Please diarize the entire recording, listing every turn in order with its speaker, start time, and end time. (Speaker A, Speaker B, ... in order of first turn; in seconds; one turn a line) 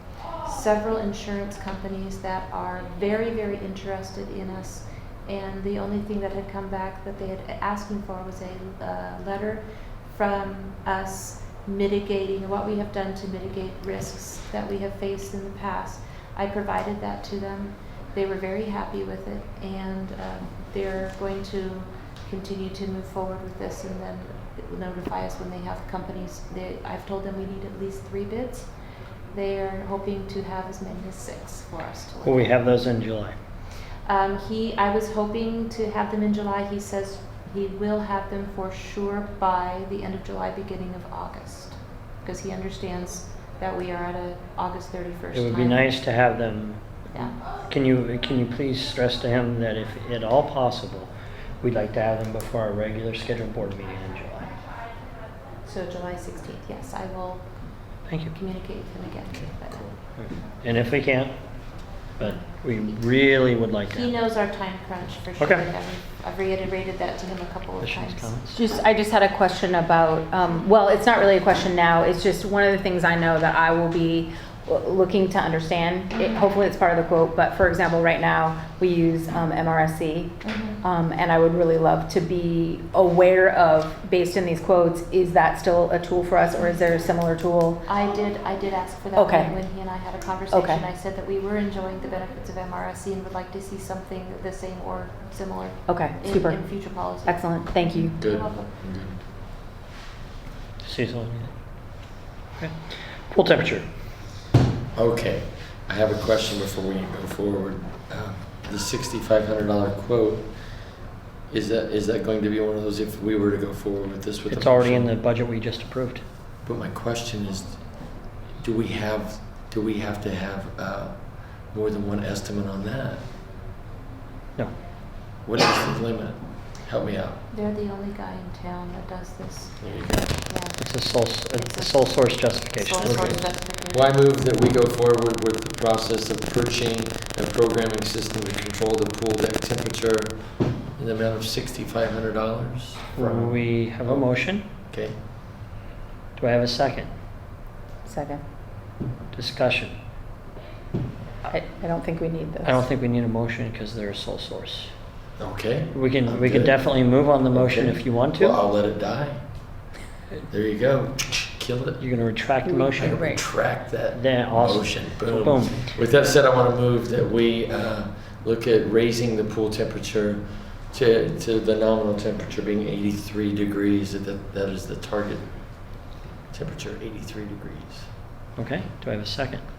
Speaker A: 0.4-28.7
Speaker A: 29.3-32.6
Speaker B: 32.2-33.4
Speaker A: 34.1-45.9
Speaker B: 45.3-54.5
Speaker A: 55.6-57.5
Speaker B: 58.1-58.3
Speaker A: 58.3-59.9
Speaker C: 59.3-60.0
Speaker B: 60.2-61.4
Speaker B: 62.2-64.1
Speaker A: 63.9-68.3
Speaker B: 65.4-65.7
Speaker B: 67.8-68.5
Speaker D: 68.5-87.9
Speaker A: 76.1-76.5
Speaker A: 80.4-80.8
Speaker A: 87.9-98.7
Speaker D: 89.2-89.7
Speaker D: 90.5-90.8
Speaker D: 95.9-98.2
Speaker C: 98.2-99.2
Speaker B: 100.8-101.5
Speaker B: 102.6-103.9
Speaker C: 104.9-110.8
Speaker C: 111.5-115.1
Speaker B: 114.5-116.2
Speaker C: 116.7-117.9
Speaker C: 118.6-123.2
Speaker C: 125.5-127.4
Speaker A: 127.5-134.1
Speaker C: 129.8-130.3
Speaker B: 130.8-133.5
Speaker C: 133.0-145.2
Speaker B: 143.2-144.7
Speaker B: 146.4-147.1
Speaker D: 148.1-148.4
Speaker B: 149.3-149.9
Speaker D: 151.5-152.8
Speaker B: 152.6-154.9
Speaker C: 155.4-159.4
Speaker B: 155.9-158.6
Speaker C: 160.5-162.0
Speaker B: 162.0-163.3
Speaker D: 162.7-163.4
Speaker C: 163.0-175.9
Speaker B: 164.1-165.9
Speaker C: 176.5-178.1
Speaker B: 178.6-179.6